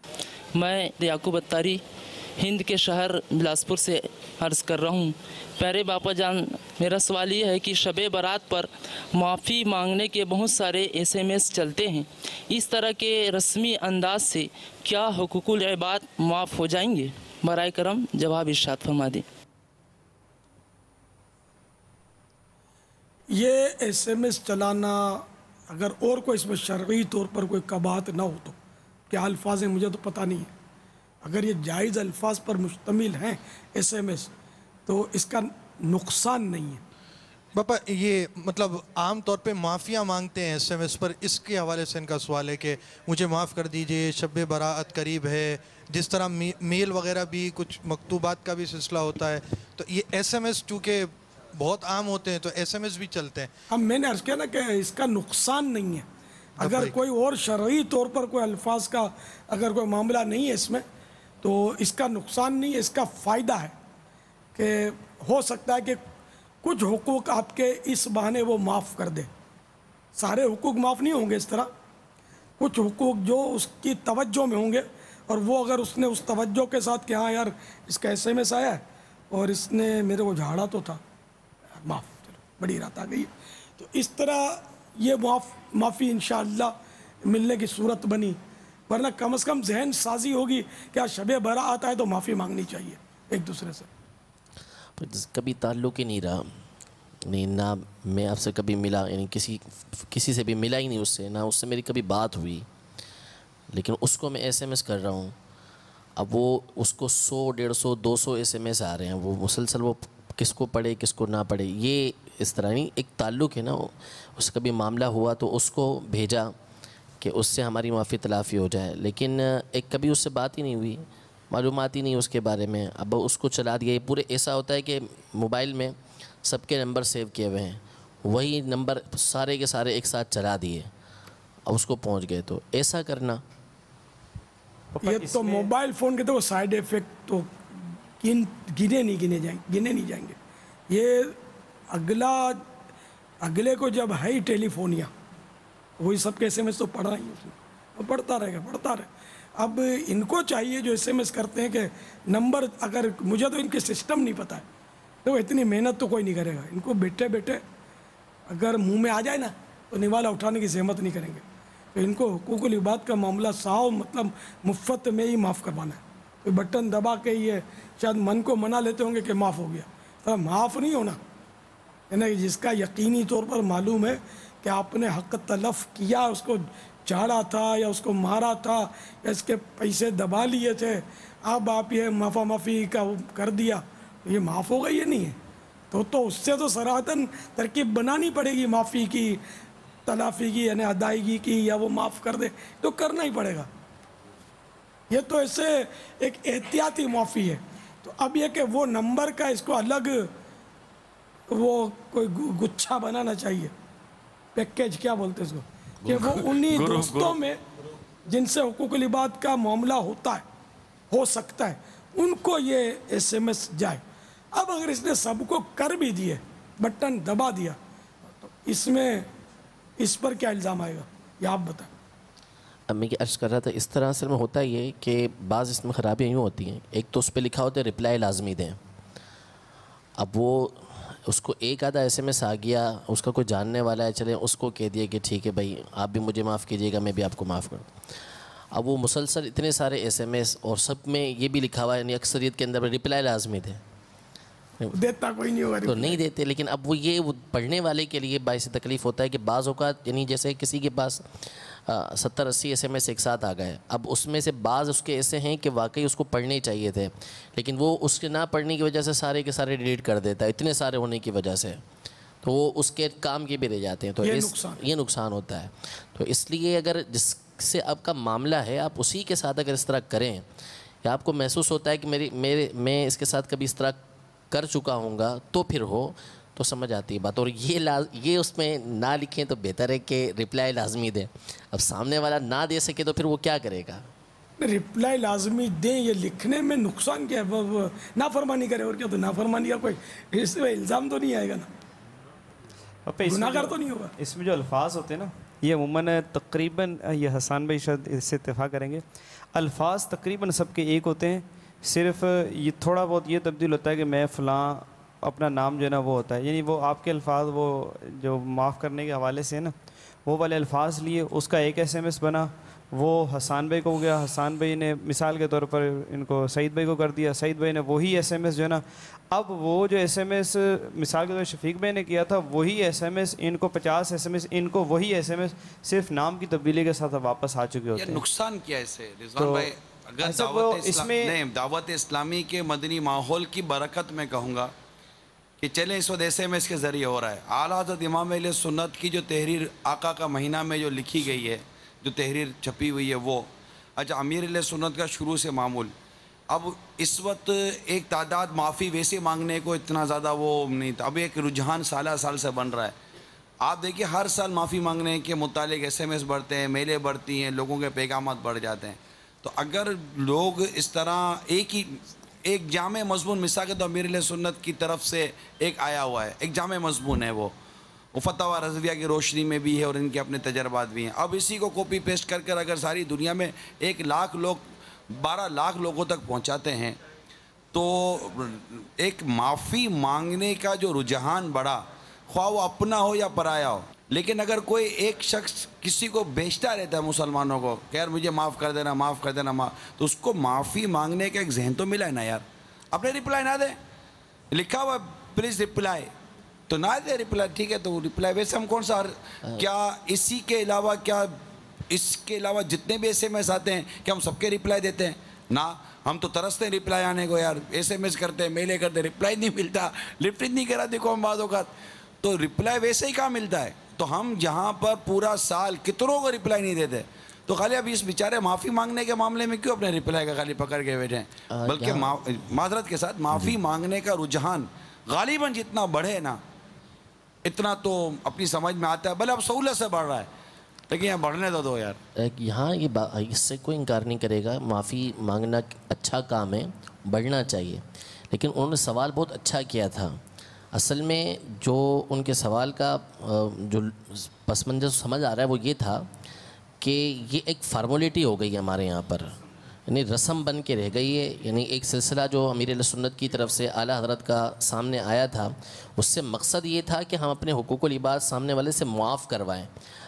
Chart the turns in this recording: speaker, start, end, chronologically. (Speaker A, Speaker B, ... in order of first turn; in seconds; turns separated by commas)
Speaker A: 0.6-1.8, Speaker A: 2.4-19.2, Speaker B: 23.3-28.6, Speaker B: 29.1-30.5, Speaker B: 31.2-34.3, Speaker B: 34.9-36.8, Speaker C: 37.5-53.5, Speaker B: 53.7-56.1, Speaker B: 56.6-60.8, Speaker C: 56.6-57.0, Speaker B: 61.4-63.8, Speaker B: 64.5-66.0, Speaker B: 66.6-69.3, Speaker B: 70.2-71.7, Speaker B: 72.6-81.0, Speaker B: 81.8-86.7, Speaker B: 87.2-93.9, Speaker D: 95.0-96.6, Speaker D: 97.3-102.7, Speaker D: 103.7-105.3, Speaker D: 106.2-116.5, Speaker D: 117.2-130.9, Speaker D: 131.7-133.4, Speaker E: 135.0-135.7, Speaker B: 135.0-140.4, Speaker B: 140.9-141.4, Speaker B: 141.9-142.7, Speaker B: 143.4-145.1, Speaker B: 146.0-154.7, Speaker B: 155.2-157.6, Speaker B: 158.5-161.4, Speaker B: 161.9-171.2, Speaker B: 172.1-185.4, Speaker B: 185.9-189.4, Speaker B: 190.1-193.7, Speaker B: 195.1-200.3, Speaker B: 201.5-203.7, Speaker B: 204.6-207.6, Speaker F: 206.1-207.3, Speaker B: 208.3-210.4, Speaker B: 211.1-214.0, Speaker B: 214.6-219.3, Speaker B: 220.0-221.9, Speaker D: 222.9-228.8, Speaker D: 230.2-237.9, Speaker D: 238.7-243.8, Speaker B: 244.9-246.2, Speaker D: 245.8-261.8, Speaker D: 262.4-270.4, Speaker B: 264.2-264.8, Speaker D: 271.0-274.0, Speaker D: 274.5-284.0, Speaker B: 284.6-291.7, Speaker E: 293.1-309.7, Speaker B: 293.3-294.1, Speaker E: 310.3-328.2, Speaker F: 328.0-334.7, Speaker E: 329.4-329.7, Speaker E: 330.2-331.4, Speaker F: 335.6-345.9, Speaker F: 346.5-353.0, Speaker F: 353.6-367.5, Speaker F: 368.1-377.0, Speaker F: 377.7-393.8, Speaker F: 394.5-396.1, Speaker F: 396.7-401.4, Speaker F: 401.9-411.7, Speaker F: 412.2-426.4, Speaker D: 421.5-422.2, Speaker F: 427.4-430.3, Speaker F: 430.9-432.0, Speaker D: 432.2-440.2, Speaker D: 440.7-446.1, Speaker D: 446.8-449.4, Speaker D: 449.9-459.7